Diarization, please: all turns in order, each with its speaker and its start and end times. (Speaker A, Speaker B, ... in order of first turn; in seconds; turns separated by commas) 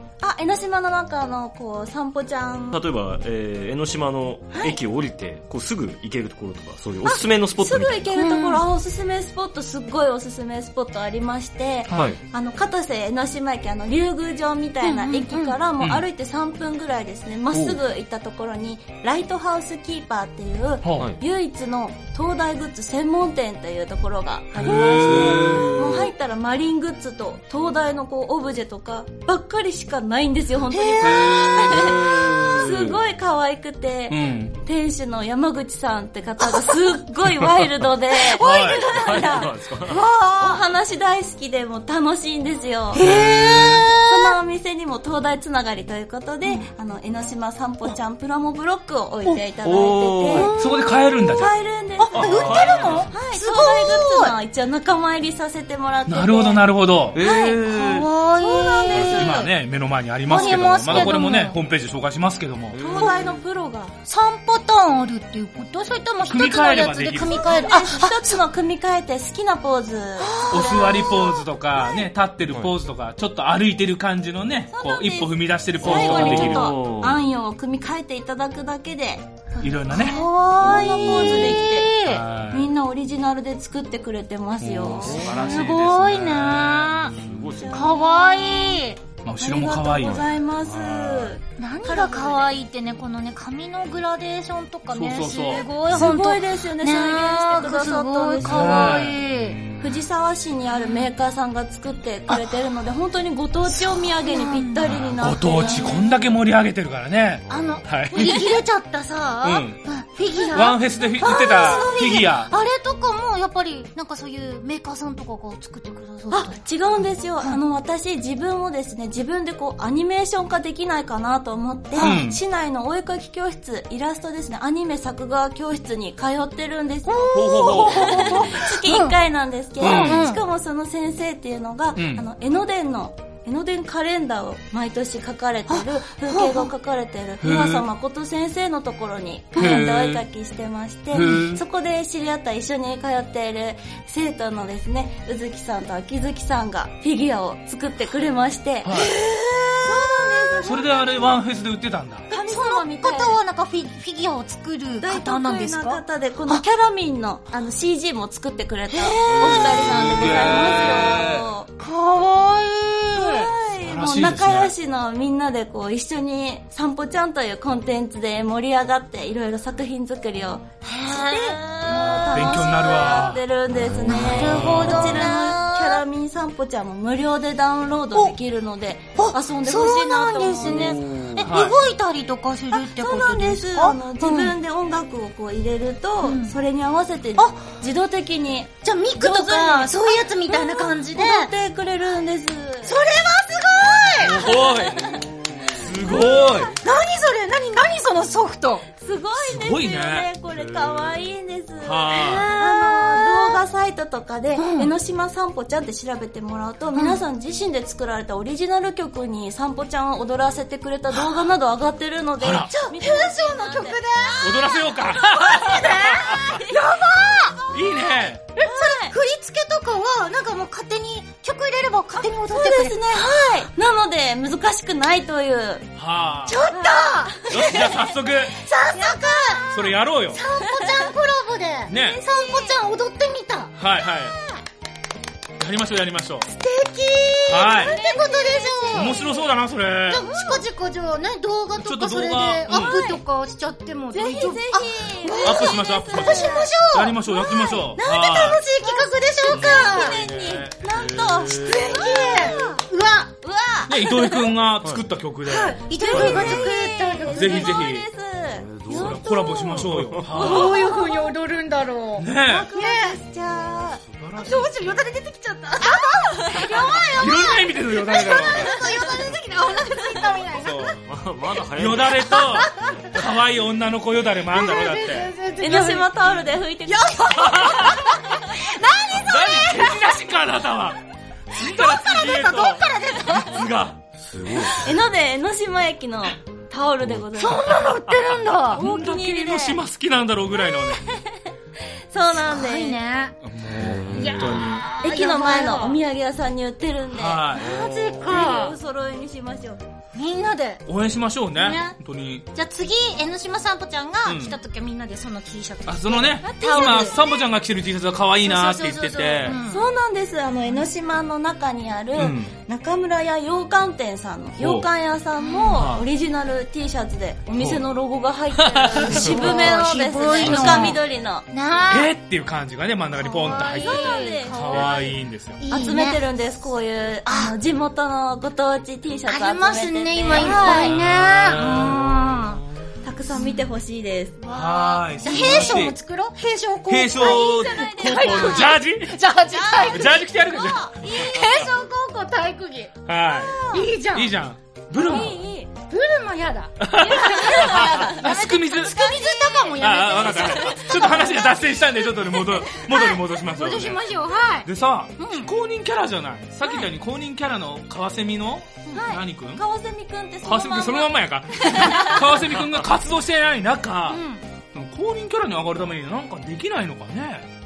Speaker A: 0.2-2.8, Speaker B: 2.7-8.1, Speaker A: 7.0-39.5, Speaker C: 8.1-8.6, Speaker B: 11.9-12.2, Speaker C: 14.8-15.6, Speaker D: 15.8-16.1, Speaker B: 17.5-17.8, Speaker D: 24.6-25.8, Speaker B: 24.6-26.1, Speaker C: 30.7-31.7, Speaker D: 31.0-32.5, Speaker B: 31.2-33.0, Speaker D: 34.1-34.6, Speaker C: 36.4-37.0, Speaker C: 38.1-40.6, Speaker D: 38.4-38.9, Speaker B: 38.9-40.0, Speaker A: 40.3-43.0, Speaker C: 42.9-44.4, Speaker D: 43.0-43.9, Speaker A: 44.0-50.5, Speaker B: 49.6-50.5, Speaker C: 50.3-50.9, Speaker D: 50.5-51.5, Speaker A: 51.3-56.6, Speaker C: 52.0-54.3, Speaker D: 52.1-53.0, Speaker B: 52.1-53.2, Speaker D: 56.1-57.2, Speaker B: 57.1-58.1, Speaker A: 57.2-57.5, Speaker C: 57.2-59.5, Speaker A: 58.4-59.3, Speaker D: 58.9-62.8, Speaker C: 60.3-61.6, Speaker B: 62.7-63.4, Speaker A: 62.8-63.9, Speaker C: 64.0-68.4, Speaker D: 66.3-67.7, Speaker A: 67.3-71.4, Speaker C: 70.2-71.3, Speaker D: 70.5-76.7, Speaker A: 74.7-79.4, Speaker B: 75.8-77.2, Speaker D: 79.6-80.2, Speaker C: 79.6-82.2, Speaker A: 79.9-85.3, Speaker B: 80.6-81.5, Speaker D: 82.0-82.7, Speaker B: 84.6-85.4, Speaker D: 84.6-87.0, Speaker C: 85.2-87.2, Speaker B: 87.1-88.0, Speaker A: 87.5-88.8, Speaker C: 87.7-89.0, Speaker D: 89.2-91.4, Speaker A: 89.4-92.5, Speaker C: 91.5-99.6, Speaker D: 94.9-95.7, Speaker A: 95.9-99.1, Speaker D: 98.4-100.0, Speaker A: 99.8-106.0, Speaker C: 100.7-101.1, Speaker C: 103.7-106.3, Speaker D: 104.8-108.6, Speaker C: 107.5-116.6, Speaker D: 109.4-109.8, Speaker D: 110.5-112.5, Speaker A: 116.3-148.9, Speaker C: 121.9-122.2, Speaker D: 122.0-122.4, Speaker C: 127.1-129.2, Speaker D: 127.3-128.5, Speaker B: 128.0-128.7, Speaker D: 129.8-130.2, Speaker C: 129.8-130.4, Speaker D: 131.9-132.2, Speaker C: 135.7-136.7, Speaker D: 137.4-137.8, Speaker D: 139.6-140.2, Speaker C: 139.6-139.8, Speaker D: 141.1-141.6, Speaker D: 148.8-149.1, Speaker C: 148.9-150.8, Speaker A: 149.9-151.1, Speaker D: 150.6-152.3, Speaker C: 152.3-156.6, Speaker A: 152.3-153.4, Speaker A: 155.0-161.7, Speaker C: 158.9-160.0, Speaker D: 159.3-161.5, Speaker B: 159.6-160.1, Speaker C: 161.8-163.5, Speaker A: 163.1-181.4, Speaker D: 163.8-164.7, Speaker C: 170.8-172.5, Speaker D: 172.2-175.3, Speaker C: 174.0-176.0, Speaker C: 179.2-184.5, Speaker D: 181.4-181.7, Speaker A: 182.7-193.0, Speaker C: 186.2-186.6, Speaker C: 187.4-187.6, Speaker C: 188.8-191.5, Speaker C: 192.8-194.5, Speaker A: 193.8-195.2, Speaker D: 194.2-196.7, Speaker A: 195.8-196.7, Speaker C: 196.8-198.9, Speaker A: 198.9-216.9, Speaker D: 199.4-200.3, Speaker B: 200.5-201.1, Speaker D: 201.8-202.5, Speaker C: 202.1-203.6, Speaker C: 204.6-204.9, Speaker C: 211.1-211.5, Speaker D: 212.4-212.7, Speaker C: 212.7-214.9, Speaker D: 214.4-216.5, Speaker C: 215.4-217.6, Speaker A: 217.6-219.1, Speaker D: 217.7-218.4, Speaker C: 218.6-223.5, Speaker A: 222.4-225.9, Speaker D: 226.0-226.6, Speaker C: 226.4-228.0, Speaker A: 226.7-228.1, Speaker D: 227.5-228.6, Speaker C: 228.6-229.7, Speaker A: 228.9-229.9, Speaker D: 229.7-230.4, Speaker C: 230.3-233.7, Speaker A: 230.6-231.1, Speaker D: 231.9-232.2, Speaker A: 232.2-232.7, Speaker D: 233.8-234.4, Speaker D: 235.6-236.5, Speaker C: 236.4-239.2, Speaker D: 237.5-238.0, Speaker A: 237.7-239.4, Speaker D: 238.9-240.2, Speaker C: 240.1-250.2, Speaker A: 240.3-240.6, Speaker D: 241.8-243.0, Speaker A: 242.7-243.2, Speaker A: 244.1-246.7, Speaker D: 245.4-248.6, Speaker A: 247.3-252.8, Speaker D: 249.5-250.8, Speaker B: 250.9-252.2, Speaker C: 251.5-253.3, Speaker A: 253.4-253.9, Speaker D: 253.9-256.7, Speaker C: 254.0-254.4, Speaker C: 255.5-257.7, Speaker A: 255.9-261.3, Speaker B: 256.1-256.6, Speaker D: 257.3-258.1, Speaker B: 258.6-260.6, Speaker D: 258.9-261.0, Speaker C: 260.3-263.2, Speaker D: 262.2-262.7, Speaker A: 262.4-264.0, Speaker D: 264.1-264.7, Speaker C: 264.4-271.0, Speaker A: 266.0-267.2, Speaker D: 267.2-268.8, Speaker A: 268.5-269.2, Speaker D: 270.6-271.0, Speaker B: 271.0-272.6, Speaker D: 271.7-275.3, Speaker C: 272.3-273.0, Speaker C: 274.5-280.1, Speaker A: 275.6-277.8, Speaker D: 277.4-278.2, Speaker D: 279.1-284.0, Speaker C: 281.5-283.6, Speaker B: 284.2-284.9, Speaker A: 284.8-287.8, Speaker C: 287.4-288.8, Speaker B: 288.1-288.4, Speaker A: 288.7-289.8, Speaker D: 288.7-291.0, Speaker A: 290.9-291.2, Speaker A: 292.1-293.0, Speaker C: 292.3-293.3, Speaker D: 293.4-294.8, Speaker B: 293.8-294.7, Speaker C: 294.1-296.0, Speaker A: 295.0-299.8, Speaker D: 297.1-297.7, Speaker C: 297.6-298.8, Speaker B: 297.7-298.1, Speaker C: 300.1-300.8, Speaker D: 300.9-302.4, Speaker C: 301.6-302.0, Speaker C: 302.5-307.2, Speaker D: 304.2-304.6, Speaker D: 305.9-309.6, Speaker A: 306.4-307.4, Speaker C: 308.4-309.8, Speaker A: 309.7-321.4, Speaker D: 312.2-312.5, Speaker D: 314.6-314.9, Speaker C: 315.4-315.9, Speaker D: 315.7-316.1, Speaker D: 317.6-317.8, Speaker D: 318.5-319.8, Speaker C: 319.1-322.1, Speaker D: 320.4-320.9, Speaker D: 321.9-325.6, Speaker C: 323.2-326.2, Speaker A: 323.4-325.1, Speaker A: 325.7-331.0, Speaker C: 327.3-327.6, Speaker C: 329.3-332.6, Speaker D: 330.3-332.4, Speaker A: 333.0-334.4, Speaker C: 333.3-333.7, Speaker C: 334.4-340.2, Speaker D: 334.5-335.9, Speaker A: 335.2-335.8, Speaker D: 336.9-339.2, Speaker A: 337.1-338.7, Speaker A: 339.5-340.9, Speaker D: 339.8-341.6, Speaker C: 341.0-342.9, Speaker D: 343.1-345.4, Speaker A: 343.3-343.9, Speaker C: 343.7-344.3, Speaker C: 345.0-351.3, Speaker A: 345.0-345.6, Speaker D: 346.8-348.9, Speaker A: 347.3-348.3, Speaker A: 348.9-351.5, Speaker D: 349.8-354.0, Speaker C: 352.6-355.5, Speaker D: 354.6-359.6, Speaker A: 358.9-362.4, Speaker D: 360.4-364.2, Speaker C: 361.7-362.1, Speaker C: 364.1-364.4, Speaker D: 364.7-367.5